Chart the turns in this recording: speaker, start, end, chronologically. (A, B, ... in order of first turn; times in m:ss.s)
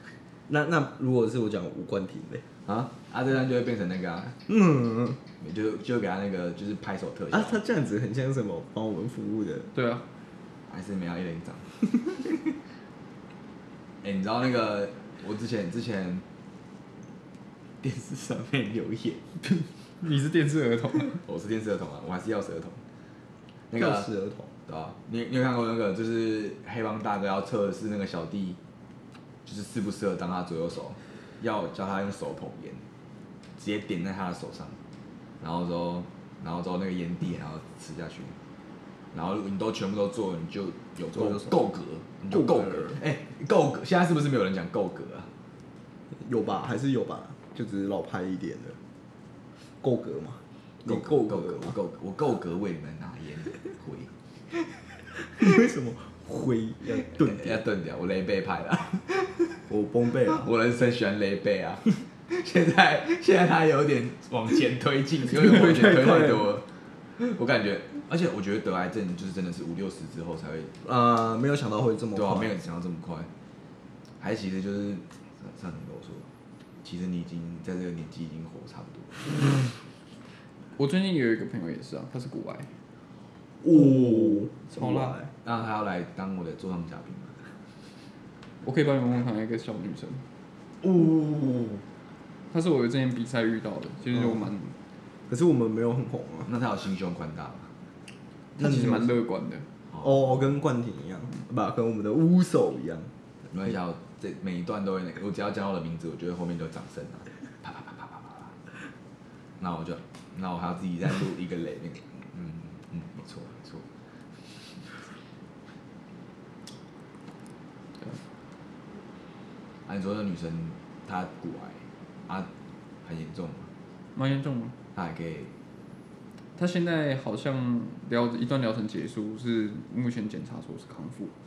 0:00.5-0:02.4 A
0:02.6-0:04.4 B
0:04.5-0:05.2 A
0:05.4-0:07.6 B
0:07.3-0:09.7 A
0:09.7-0:10.0 C
0:10.7-0:11.7 B
0:14.0-0:16.2 B
0:17.8-0:19.2 B
0:19.4-0:21.2 C
0:21.2-0:22.8 B
0:23.7-0:24.1 B
0:23.7-0:24.5 A
0:24.6-0:28.6 B
0:29.4-0:32.8 B
0:33.6-0:34.8 B
0:35.4-0:38.4 B
0:39.1-0:45.3 B
0:41.1-0:41.6 A
0:42.3-0:43.0 A
0:46.1-0:48.8 A
0:49.8-0:51.7 A
0:50.8-0:54.1 B
0:55.3-0:57.6 A
0:57.2-0:59.6 B
0:59.7-1:00.5 A
1:00.3-1:10.7 B
1:05.2-1:06.5 A
1:10.8-1:12.5 A
1:12.2-1:13.3 B
1:14.2-1:16.3 B
1:16.8-1:19.6 B
1:20.8-1:22.7 C
1:23.6-1:25.3 A
1:23.9-1:25.2 C
1:25.4-1:27.4 B
1:28.6-1:30.2 C
1:30.8-1:31.8 B
1:32.5-1:34.7 C
1:34.1-1:34.4 A
1:35.3-1:36.5 A
1:36.5-1:37.7 B
1:38.6-1:39.7 C
1:38.6-1:39.1 A
1:39.9-1:40.5 B
1:40.0-1:43.1 A
1:43.5-1:48.6 B
1:49.6-1:53.9 B
1:59.9-2:02.5 B
2:03.0-2:03.7 B
2:04.1-2:04.7 C
2:04.9-2:05.5 B
2:06.6-2:11.3 C